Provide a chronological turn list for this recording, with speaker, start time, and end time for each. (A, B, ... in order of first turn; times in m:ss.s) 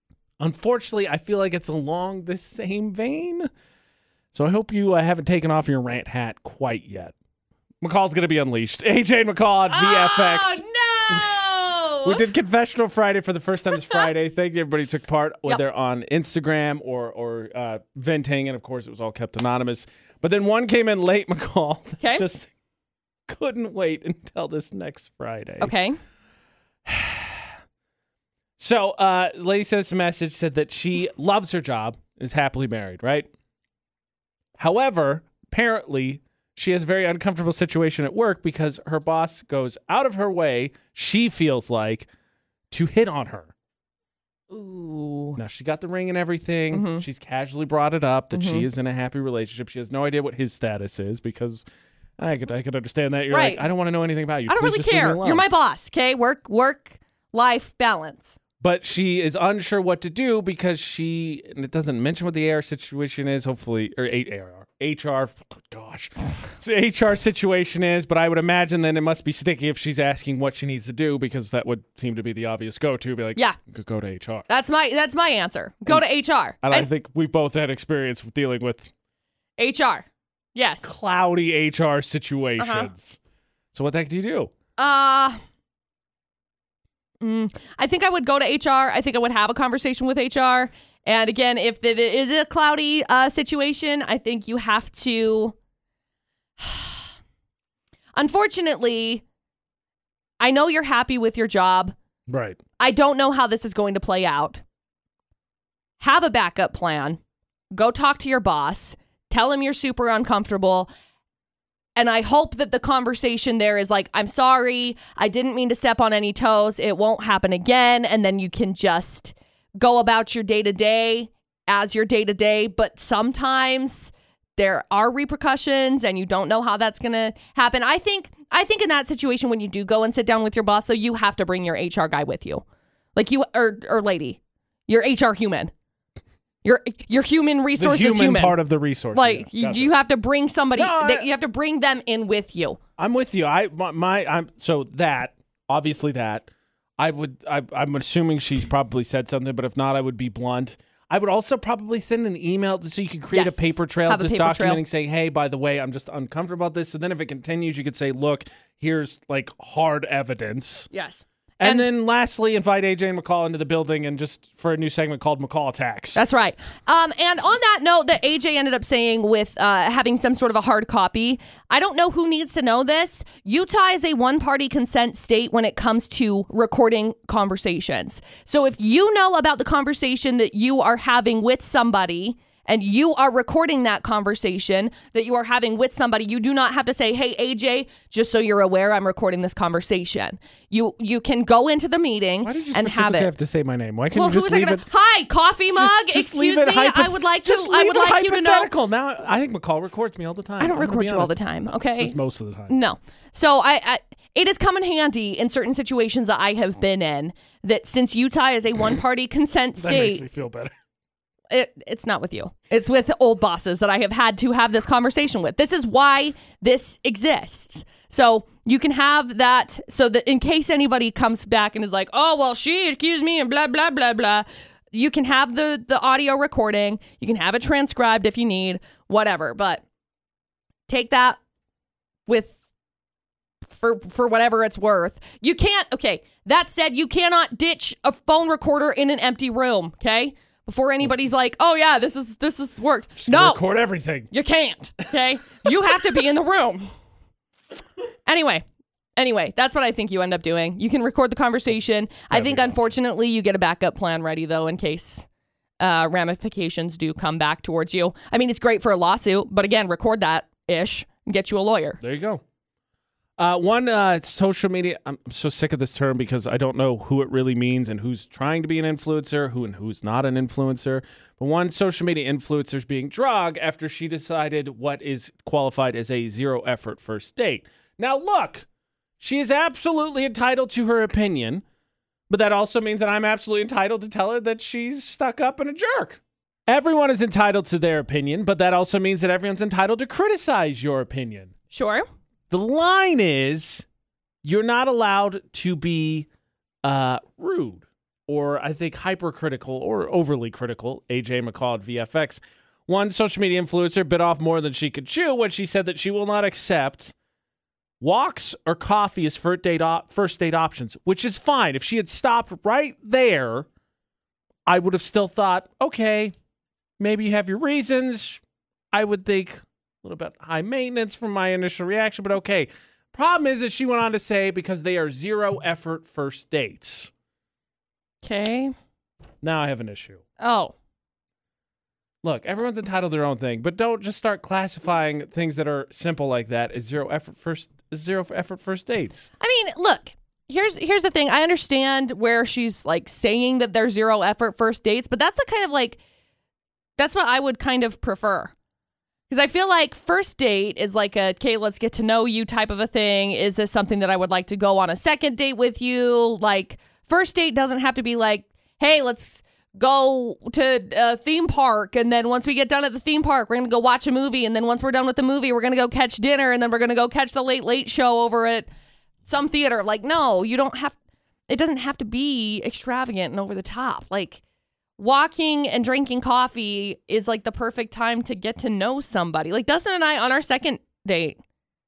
0:00.4-0:03.5 A
0:04.3-0:07.2 A
0:07.8-0:11.4 A
0:09.7-0:12.2 B
0:12.0-0:22.5 A
0:13.7-0:14.1 B
0:23.3-0:25.7 A
0:25.6-0:26.0 B
0:26.9-0:27.5 A
0:28.6-0:33.3 A
0:34.6-0:42.1 A
0:42.7-0:43.5 A
0:44.5-0:45.4 B
0:45.4-0:51.6 A
0:46.7-0:47.0 B
0:48.3-0:48.6 B
0:52.2-0:55.4 A
0:53.3-0:53.6 B
0:54.5-0:58.4 B
0:58.6-1:14.5 A
1:14.5-1:16.9 B
1:16.6-1:18.9 A
1:19.6-1:20.9 B
1:20.8-1:23.2 A
1:22.6-1:22.9 B
1:23.7-1:24.5 A
1:24.8-1:25.4 B
1:27.2-1:35.6 B
1:36.6-1:37.1 B
1:38.2-1:39.2 B
1:40.4-1:42.0 B
1:42.3-1:42.6 A
1:42.8-1:44.6 B
1:46.0-1:47.2 B
1:47.7-1:50.9 B
1:52.0-2:12.6 B
2:13.2-2:15.7 B
2:16.6-2:18.6 B
2:17.8-2:19.9 A
2:19.1-2:22.8 B
2:20.8-2:21.3 A
2:23.0-2:26.5 A
2:27.0-2:40.9 A
2:33.3-2:34.8 B
2:40.9-2:41.9 B
2:41.6-2:46.2 A
2:46.2-3:13.3 B
3:12.4-3:14.9 A
3:14.1-3:18.7 B
3:15.7-3:21.4 A
3:20.6-3:22.2 B
3:22.0-3:22.8 A
3:22.7-3:30.2 B
3:29.8-3:30.7 A
3:31.5-3:49.8 B
3:50.9-3:51.4 B
3:52.3-3:52.6 B
3:53.7-4:03.6 B
4:03.2-4:04.3 A
4:04.3-4:06.9 B
4:08.3-4:08.6 B
4:09.2-4:15.3 B
4:12.3-4:12.9 A
4:15.8-4:22.0 B
4:22.0-4:22.4 A
4:23.4-4:38.7 A
4:39.2-4:41.6 A
4:42.3-4:51.5 A
4:51.7-4:52.1 B
4:52.5-4:53.9 A
4:54.4-4:56.3 A
4:56.8-5:07.1 A
5:08.0-5:13.7 A
5:14.7-5:16.3 A
5:17.0-5:18.4 A
5:18.9-5:27.1 A
5:28.2-5:28.7 B
5:29.4-5:30.2 A
5:30.4-5:30.8 B
5:32.2-5:39.3 A
5:39.4-5:46.0 B
5:47.0-5:48.5 B
5:49.3-6:08.7 B
6:09.2-6:11.0 B
6:11.5-6:14.4 B
6:15.0-6:21.4 B